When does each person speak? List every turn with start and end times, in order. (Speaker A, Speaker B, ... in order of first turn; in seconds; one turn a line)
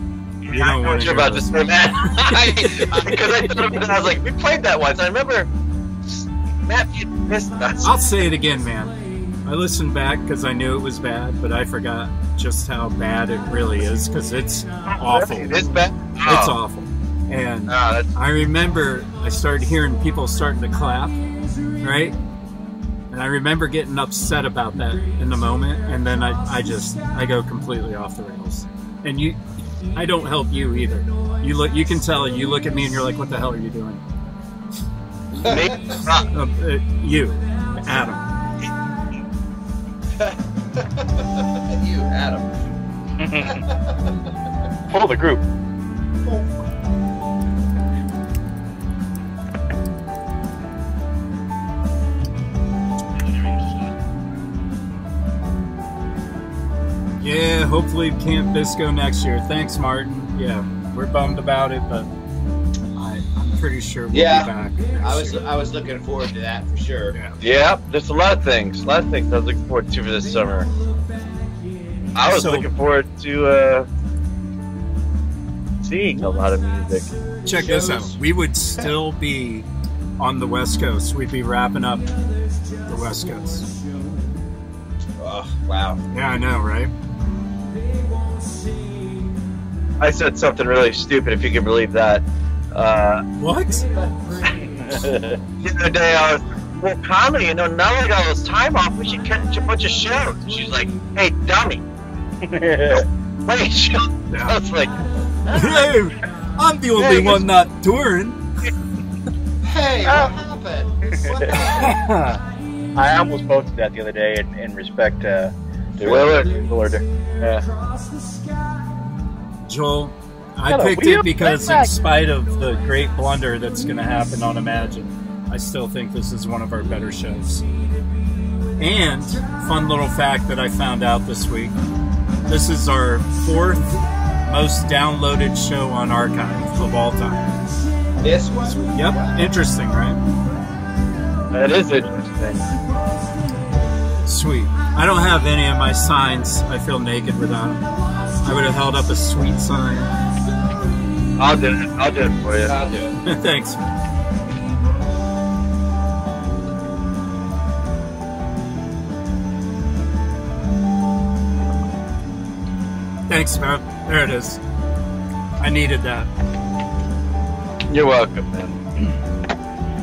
Speaker A: 0.4-5.5
Speaker B: 0.5-2.9
Speaker A: 6.2-8.0
Speaker B: 7.8-15.6
Speaker A: 14.9-16.5
Speaker B: 16.2-21.2
Speaker A: 17.7-18.1
Speaker B: 21.8-22.1
Speaker B: 23.1-29.4
Speaker B: 29.9-34.0
Speaker C: 35.4-36.0
Speaker A: 35.4-36.3
Speaker B: 36.3-38.2
Speaker C: 40.2-42.5
Speaker D: 43.2-43.6
Speaker C: 43.4-43.9
Speaker D: 44.9-45.4
Speaker C: 46.2-46.5
Speaker B: 57.2-62.1
Speaker B: 63.0-65.4
Speaker C: 64.1-64.5
Speaker C: 65.0-67.1
Speaker B: 67.1-67.4
Speaker A: 67.4-70.7
Speaker A: 72.1-73.9
Speaker B: 72.3-72.7
Speaker A: 75.8-77.1
Speaker B: 77.5-79.7
Speaker C: 77.5-78.1
Speaker B: 80.2-82.1
Speaker B: 82.8-83.7
Speaker C: 85.2-86.0
Speaker B: 86.1-86.9
Speaker A: 90.0-93.2
Speaker B: 93.4-93.9
Speaker C: 94.0-94.3
Speaker D: 94.8-95.4
Speaker A: 95.6-101.8
Speaker D: 102.4-103.0
Speaker A: 102.9-104.9
Speaker B: 104.3-104.5
Speaker B: 105.5-108.4
Speaker A: 107.0-107.3
Speaker C: 109.6-112.0
Speaker D: 111.3-111.6
Speaker B: 111.5-112.4
Speaker D: 113.0-117.0
Speaker A: 116.0-116.5
Speaker B: 119.6-127.6
Speaker D: 120.7-122.0
Speaker B: 128.8-131.7
Speaker B: 132.5-137.6
Speaker C: 138.2-139.4
Speaker B: 138.9-140.2
Speaker A: 141.5-142.7
Speaker B: 144.2-147.8
Speaker B: 148.4-150.1
Speaker A: 151.4-152.7
Speaker C: 152.6-153.2
Speaker B: 153.2-153.8
Speaker B: 163.3-164.6
Speaker B: 165.6-166.3
Speaker A: 167.9-168.9